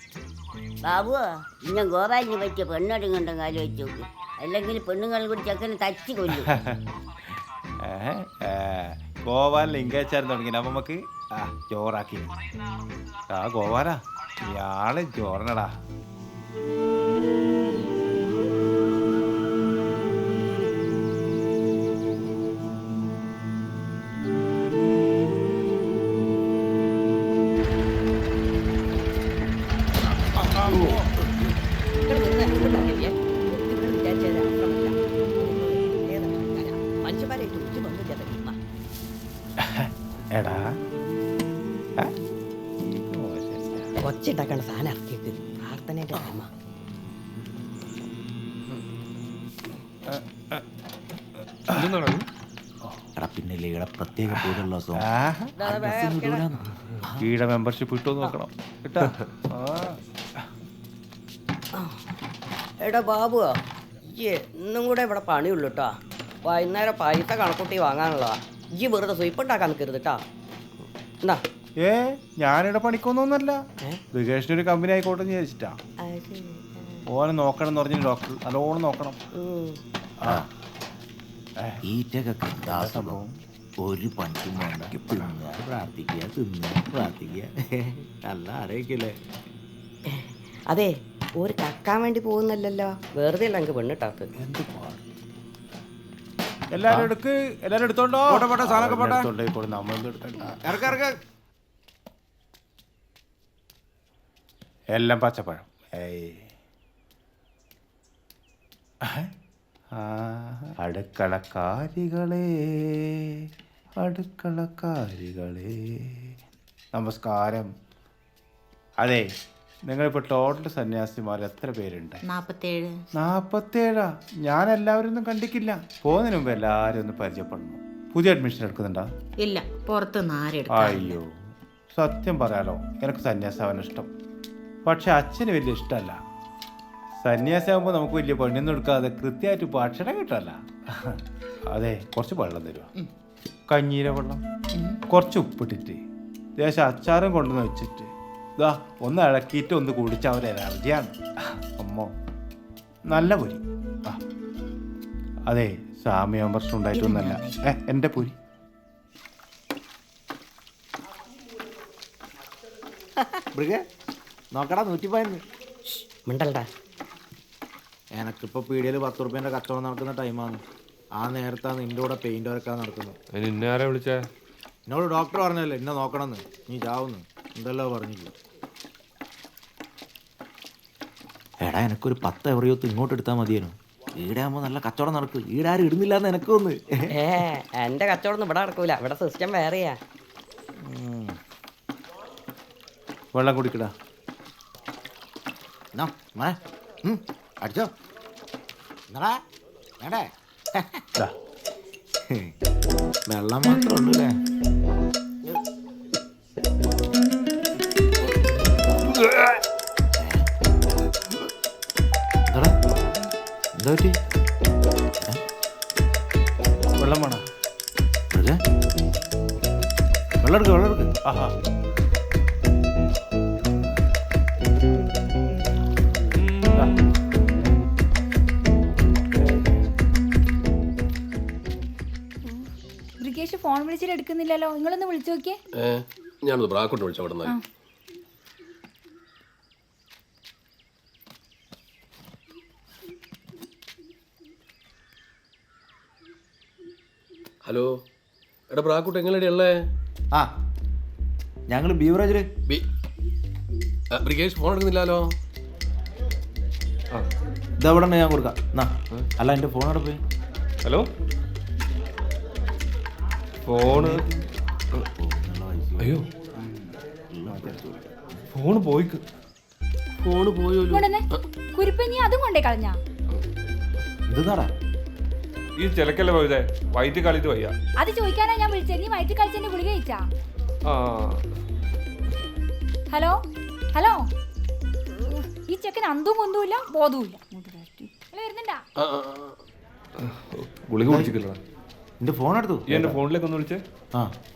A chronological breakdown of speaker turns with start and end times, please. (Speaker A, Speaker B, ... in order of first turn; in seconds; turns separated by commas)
Speaker A: 0.8-6.5, Speaker B: 6.3-6.8, Speaker B: 7.8-12.3, Speaker B: 13.3-15.7, Speaker C: 30.6-31.0, Speaker C: 32.0-38.5, Speaker B: 39.6-40.7, Speaker B: 42.8-43.9, Speaker C: 44.0-46.5, Speaker B: 50.1-50.6, Speaker D: 51.7-52.2, Speaker E: 53.2-55.1, Speaker B: 54.3-55.6, Speaker C: 55.6-56.5, Speaker E: 55.6-57.3, Speaker B: 57.1-60.0, Speaker C: 62.8-70.2, Speaker B: 71.8-73.6, Speaker B: 74.1-75.8, Speaker C: 76.0-77.0, Speaker B: 77.1-79.2, Speaker C: 79.3-79.8, Speaker E: 81.8-83.2, Speaker B: 82.6-83.3, Speaker E: 83.8-89.1, Speaker B: 84.6-85.4, Speaker C: 90.1-94.3, Speaker B: 94.4-95.0, Speaker B: 96.7-101.0, Speaker E: 98.3-99.3, Speaker E: 100.6-101.1, Speaker B: 104.9-106.5, Speaker B: 110.0-112.9, Speaker B: 114.0-116.3, Speaker B: 116.9-117.7, Speaker B: 119.8-122.2, Speaker F: 122.3-123.0, Speaker B: 123.2-129.1, Speaker F: 129.4-131.1, Speaker B: 130.7-131.3, Speaker B: 131.9-134.1, Speaker B: 134.8-136.2, Speaker B: 137.2-141.2, Speaker B: 141.7-142.9, Speaker B: 143.7-144.4, Speaker B: 145.1-146.0, Speaker B: 146.6-151.1, Speaker B: 151.8-152.1, Speaker B: 153.1-154.2, Speaker B: 155.5-158.3, Speaker F: 157.0-157.6, Speaker E: 163.5-163.8, Speaker E: 164.5-165.4, Speaker C: 165.9-166.7, Speaker E: 168.1-170.6, Speaker E: 171.2-173.2, Speaker D: 173.3-174.3, Speaker E: 174.9-178.3, Speaker E: 181.6-187.2, Speaker C: 187.1-190.0, Speaker E: 190.8-191.4, Speaker B: 193.3-193.9, Speaker E: 195.9-197.9, Speaker E: 199.1-199.4, Speaker E: 200.0-201.0, Speaker E: 203.3-204.3, Speaker E: 210.2-210.4, Speaker E: 212.5-212.7, Speaker E: 213.8-214.1, Speaker B: 217.0-217.4, Speaker E: 220.4-221.1, Speaker B: 221.2-221.5, Speaker G: 233.2-235.6, Speaker H: 235.8-237.5, Speaker H: 247.6-247.9, Speaker H: 248.7-249.7, Speaker E: 251.7-252.4, Speaker H: 254.1-255.2, Speaker E: 257.8-260.2, Speaker D: 263.7-264.2, Speaker E: 263.9-264.4, Speaker E: 265.2-266.2, Speaker D: 266.0-266.3, Speaker E: 267.3-268.1, Speaker B: 267.5-267.8, Speaker D: 268.5-269.2, Speaker H: 270.2-271.0, Speaker G: 270.9-273.0, Speaker E: 274.3-274.7, Speaker D: 275.8-277.7, Speaker G: 278.0-280.3, Speaker D: 280.9-281.4, Speaker G: 283.1-283.4, Speaker G: 283.9-284.2, Speaker G: 285.1-288.8, Speaker H: 289.0-289.5, Speaker D: 290.2-291.6, Speaker E: 291.1-291.3, Speaker E: 292.2-293.2, Speaker D: 292.9-293.8